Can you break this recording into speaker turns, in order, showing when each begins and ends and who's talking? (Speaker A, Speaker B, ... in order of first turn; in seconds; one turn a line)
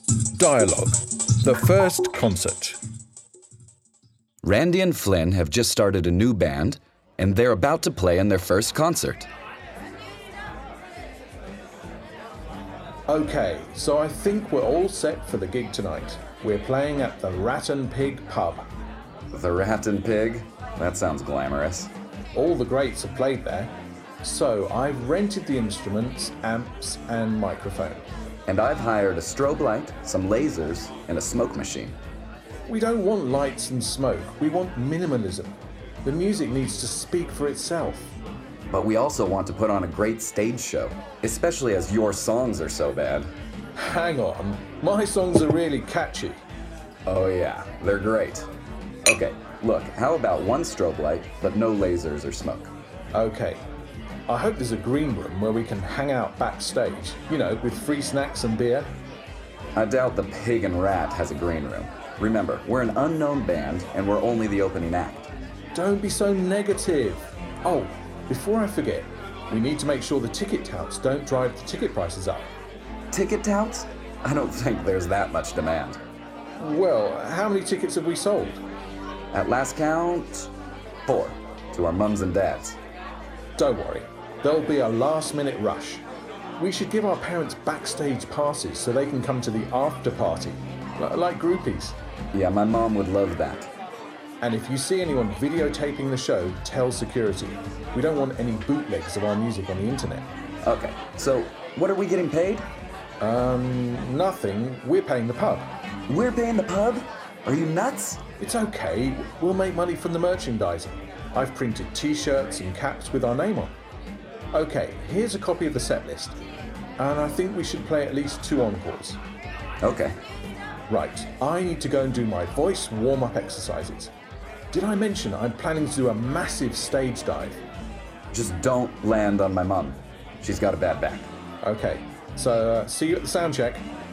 Speaker A: 0.3-2.8
Speaker B: 4.4-9.3
Speaker A: 13.1-18.7
Speaker B: 19.3-21.9
Speaker A: 22.3-28.1
Speaker B: 28.5-31.9
Speaker A: 32.7-38.1
Speaker B: 38.7-43.3
Speaker A: 43.8-46.4
Speaker B: 47.0-48.5
Speaker B: 49.0-52.7
Speaker A: 53.1-53.6
Speaker A: 54.3-58.9
Speaker B: 59.8-65.3
Speaker A: 65.7-72.5
Speaker B: 73.1-76.0
Speaker A: 76.6-78.6
Speaker B: 79.3-80.5
Speaker B: 81.1-82.8
Speaker A: 83.6-86.0
Speaker A: 86.6-92.0
Speaker B: 92.3-93.7
Speaker A: 94.4-100.3
Speaker B: 100.6-102.7
Speaker A: 103.2-105.7
Speaker B: 106.1-108.2
Speaker A: 108.4-113.7
Speaker A: 114.5-116.4
Speaker A: 117.0-119.2
Speaker B: 119.8-120.2
Speaker A: 120.9-124.1
Speaker A: 124.7-127.6
Speaker B: 128.3-131.3
Speaker A: 131.6-133.8